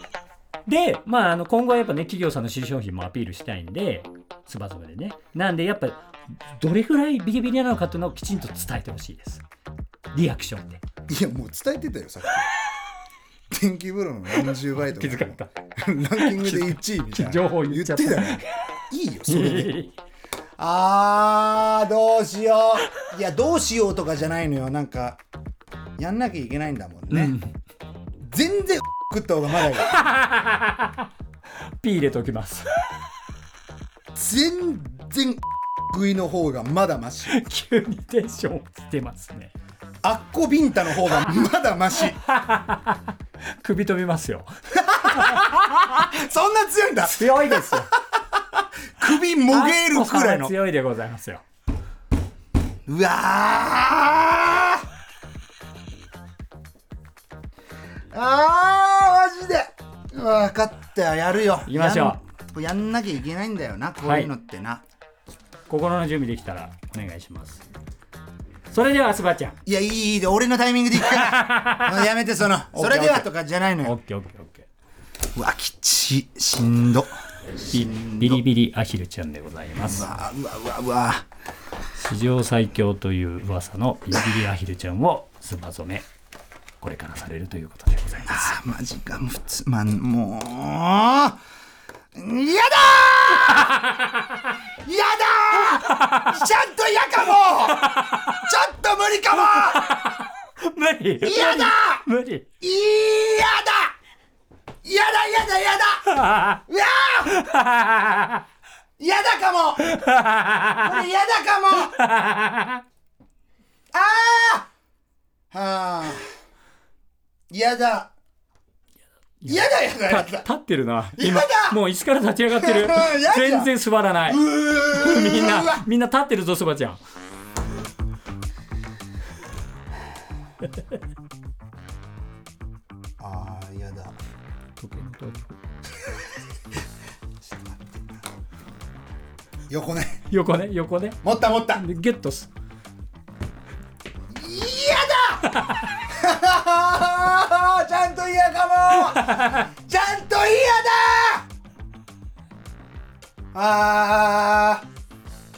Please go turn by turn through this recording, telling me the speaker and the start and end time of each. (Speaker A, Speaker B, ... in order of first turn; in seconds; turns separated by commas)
Speaker A: 0.7-6.0, Speaker A: 6.5-9.4, Speaker A: 10.1-10.8, Speaker B: 11.1-12.5, Speaker B: 13.5-19.8, Speaker A: 14.4-15.5, Speaker A: 16.1-18.5, Speaker A: 19.2-19.9, Speaker B: 20.6-25.2, Speaker B: 26.0-27.4, Speaker A: 27.1-27.5, Speaker B: 28.2-29.9, Speaker A: 29.7-31.0, Speaker A: 31.8-32.7, Speaker B: 34.1-37.4, Speaker A: 37.3-39.5, Speaker B: 40.0-42.2, Speaker A: 42.2-44.5, Speaker B: 44.7-50.5, Speaker A: 45.0-45.5, Speaker A: 47.0-47.9, Speaker A: 49.5-51.4, Speaker B: 52.9-54.8, Speaker B: 58.1-64.8, Speaker A: 61.6-62.2, Speaker A: 64.0-64.3, Speaker A: 65.7-67.6, Speaker A: 68.7-69.6, Speaker B: 69.7-74.0, Speaker A: 71.0-72.1, Speaker A: 72.7-73.3, Speaker A: 73.8-74.7, Speaker B: 75.3-77.1, Speaker B: 77.6-78.4, Speaker A: 77.7-80.1, Speaker B: 79.8-81.2, Speaker A: 82.0-86.1, Speaker B: 84.1-84.4, Speaker A: 86.8-88.5, Speaker B: 88.2-91.4, Speaker B: 92.1-93.9, Speaker A: 93.5-94.5, Speaker B: 94.8-100.1, Speaker A: 95.7-96.4, Speaker A: 97.8-98.5, Speaker A: 99.4-102.5, Speaker B: 101.2-102.0, Speaker B: 102.6-103.9, Speaker B: 104.8-107.4, Speaker A: 106.1-106.6, Speaker A: 107.3-108.4, Speaker B: 109.0-110.0, Speaker A: 109.8-111.0, Speaker B: 110.6-112.0, Speaker A: 111.8-112.8, Speaker B: 113.9-114.7, Speaker B: 115.5-116.2, Speaker B: 117.5-118.1, Speaker A: 119.4-127.0, Speaker B: 119.4-120.5, Speaker B: 121.1-121.8, Speaker B: 122.5-125.8, Speaker B: 133.2-134.1, Speaker A: 134.8-135.6, Speaker B: 137.4-138.2, Speaker B: 139.7-140.2, Speaker A: 140.3-142.5, Speaker B: 141.2-141.8, Speaker B: 144.3-151.4, Speaker A: 145.4-146.0, Speaker A: 149.0-149.7, Speaker B: 153.5-154.8